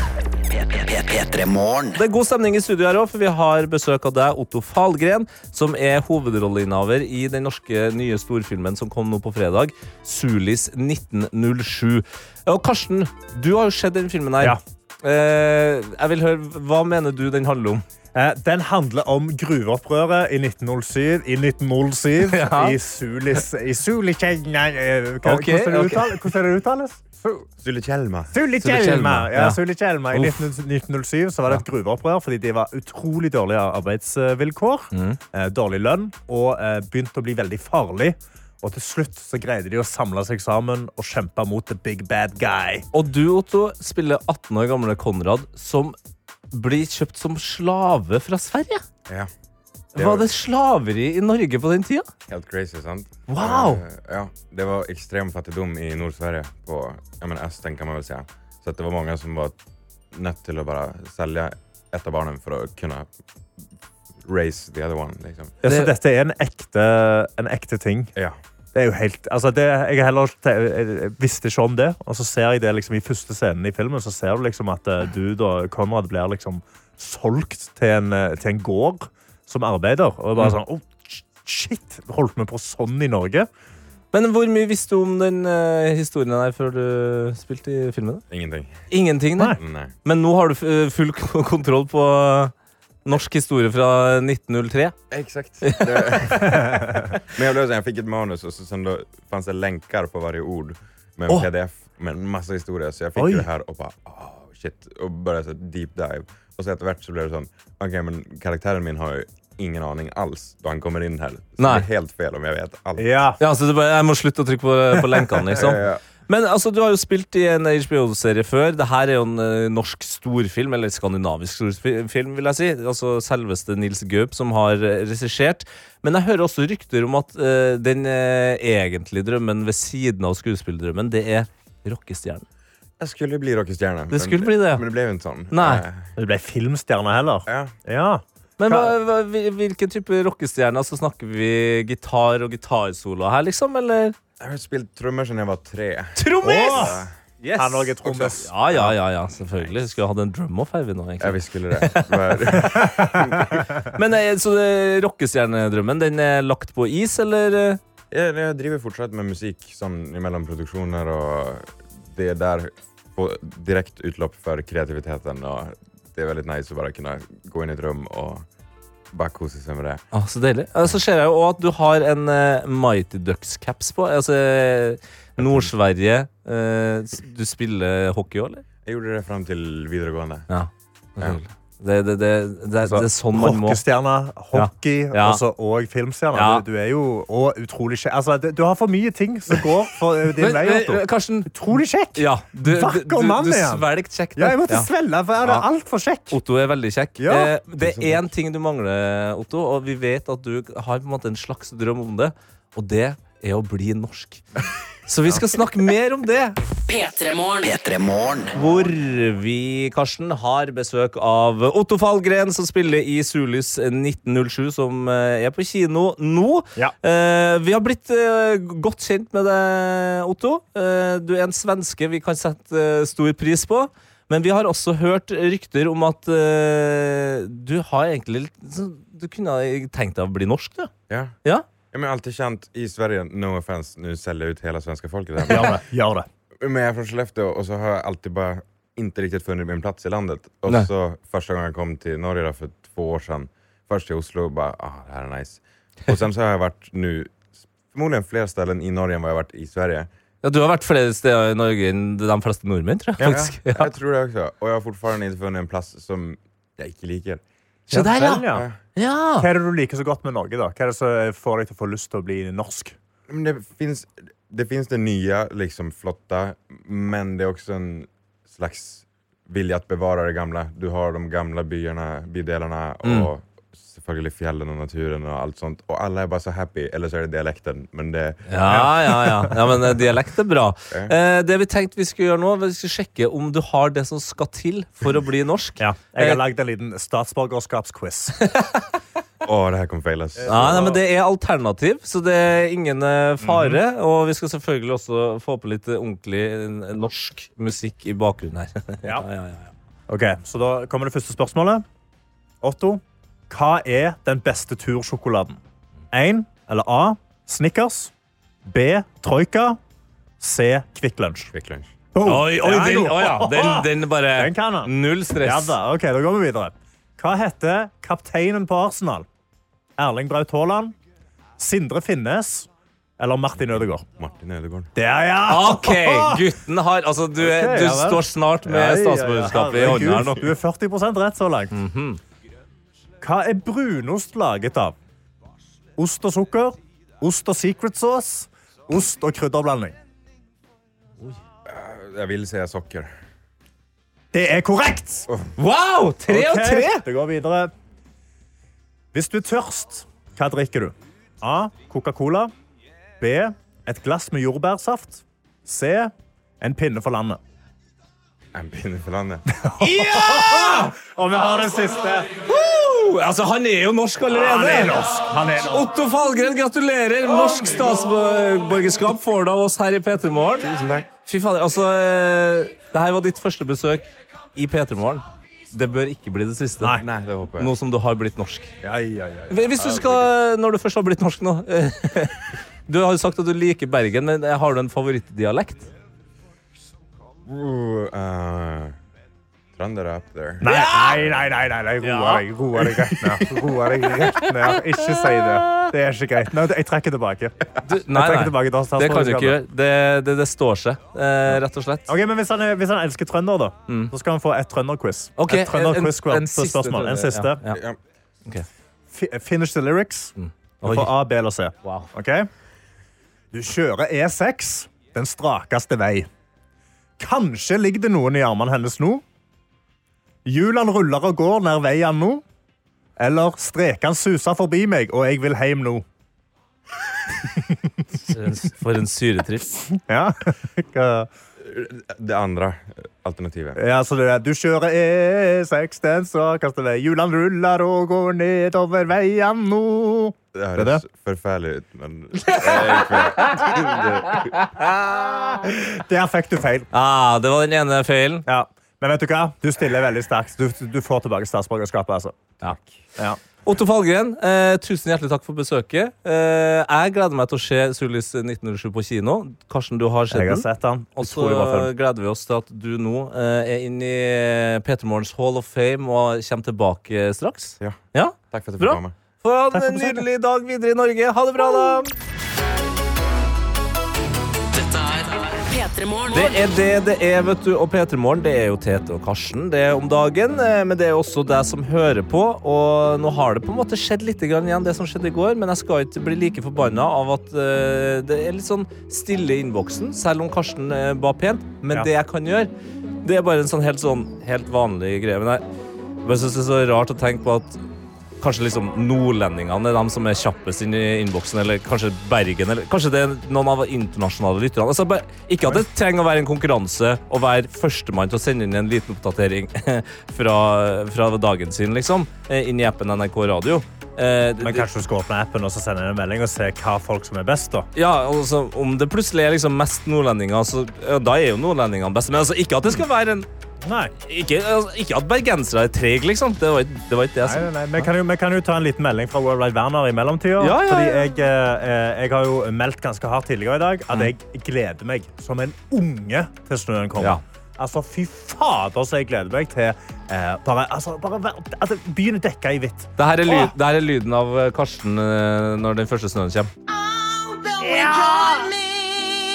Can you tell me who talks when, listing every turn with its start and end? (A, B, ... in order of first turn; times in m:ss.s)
0:00.5-0:02.0 A
0:02.0-0:17.8 B
0:18.1-0:27.5 C
0:22.2-0:22.8 B
0:25.2-0:26.3 B
0:27.6-0:28.4 D
0:28.3-0:42.9 C
0:28.6-0:29.6 B
0:30.1-0:30.5 B
0:34.9-0:35.2 B
0:42.9-0:46.0 B
0:46.5-0:48.8 B
0:50.0-0:52.1 B
0:50.0-0:50.3 D
0:52.3-0:59.6 D
0:53.3-0:53.8 B
1:00.1-1:03.1 D
1:04.2-1:05.6 D
1:05.6-1:08.1 C
1:05.6-1:05.9 B
1:08.7-1:23.5 C
1:24.1-1:28.2 B
1:28.3-1:28.8 D
1:28.9-1:32.5 B
1:29.5-1:29.9 D
1:33.0-1:35.0 B
1:35.1-1:53.1 D
1:35.6-1:36.6 B
1:36.4-1:37.1 C
1:43.2-1:43.5 C
1:51.6-1:51.9 B
1:53.0-1:53.4 C
1:53.4-2:12.5 B
1:55.5-1:56.0 D
2:13.0-2:16.1 D
2:14.1-2:14.8 B
2:15.5-2:15.8 B
2:16.2-2:18.9 C
2:17.5-2:17.7 D
2:18.6-2:24.2 B
2:24.4-2:27.1 D
2:26.2-2:32.6 B
2:26.4-2:28.5 C
2:31.2-2:33.8 D
2:33.9-2:37.8 B
2:38.1-2:48.5 D
2:49.1-2:50.0 D
2:50.1-2:58.6 B
2:55.4-2:55.7 D
2:58.8-3:00.5 D
3:00.5-3:03.8 B
3:02.8-3:16.4 C
3:04.5-3:05.4 B
3:06.3-3:06.6 B
3:10.3-3:14.9 B
3:16.3-3:24.4 B
3:17.2-3:17.6 C
3:17.8-3:18.3 D
3:25.1-3:26.6 B
3:26.9-3:27.7 E
3:27.6-3:28.6 A
3:28.5-3:50.9 B
3:51.1-3:51.4 D
3:51.9-3:55.8 D
3:55.5-3:56.3 C
3:56.6-4:10.1 D
4:10.4-4:13.9 B
4:13.2-4:13.4 C
4:13.2-4:17.4 D
4:17.9-4:19.5 B
4:17.9-4:18.7 C
4:18.5-4:18.8 D
4:19.4-4:23.0 C
4:23.3-4:38.8 D
4:33.0-4:33.3 B
4:38.5-4:46.4 B
4:38.7-4:39.6 C
4:45.8-4:48.4 C
4:48.4-4:48.9 B
4:49.4-4:51.0 D
4:50.4-4:51.0 C
4:50.5-4:59.7 B
4:53.4-4:53.8 C
5:00.1-5:01.8 C
5:02.6-5:05.6 C
5:06.1-5:08.1 C
5:08.6-5:09.8 C
5:10.4-5:11.5 C
5:11.5-5:12.0 D
5:12.1-5:19.3 C
5:12.2-5:15.8 B
5:20.0-5:21.0 C
5:21.6-5:24.0 C
5:24.2-5:24.9 D
5:25.0-5:26.5 C
5:25.5-5:30.5 B
5:27.4-5:31.8 C
5:31.7-5:32.2 B
5:33.2-5:35.0 C
5:36.0-5:40.0 C
5:41.7-5:43.1 D
5:44.3-5:45.3 C
5:45.6-5:47.0 B
5:46.3-5:47.7 C
5:49.1-5:52.5 C
5:53.2-5:57.4 C
5:58.5-5:59.5 D
5:59.6-6:02.3 C
5:59.8-6:00.9 B
6:02.4-6:05.0 B
6:04.3-6:05.9 C
6:05.6-6:17.0 B
6:10.7-6:11.1 D
6:16.8-6:17.1 C
6:16.9-6:17.7 D
6:17.6-6:18.7 B
6:18.8-6:19.7 C
6:19.5-6:25.9 B
6:19.8-6:20.2 D
6:27.4-6:29.0 D
6:29.8-6:30.7 D
6:30.6-6:37.6 C
6:30.6-6:31.2 B
6:32.0-6:33.1 B
6:34.2-6:35.9 B
6:37.8-6:42.1 B
6:38.1-6:39.6 C
6:42.1-6:47.6 C
6:45.4-6:47.8 B
6:47.7-6:48.0 D
6:49.1-6:52.5 C
6:50.4-6:51.1 B
6:51.8-6:52.1 B
6:53.5-6:56.3 C
6:57.2-6:59.2 C
7:00.4-7:02.4 C
7:03.2-7:06.0 C
7:07.4-7:07.8 C
7:08.3-7:09.8 B
7:09.9-7:11.3 C
7:11.6-7:13.8 D
7:13.8-7:21.0 C
7:20.6-7:24.7 D
7:22.5-7:23.8 B
7:24.3-7:24.8 B
7:25.5-7:26.9 C
7:26.9-7:28.5 B
7:28.5-7:32.6 C
7:33.6-7:52.1 B
7:40.3-7:41.9 C
7:47.8-7:49.2 D
7:49.7-7:50.2 C
7:54.7-7:56.7 E
7:56.3-8:12.7 B
8:13.2-8:15.6 B
8:16.2-8:17.8 B
8:18.4-8:34.9 B
8:34.6-8:37.9 C
8:38.0-8:43.5 B
8:43.8-8:44.1 C
8:44.2-8:48.1 B
8:47.4-9:03.7 C
8:50.6-8:51.3 B
9:03.2-9:06.7 B
9:07.8-9:08.7 C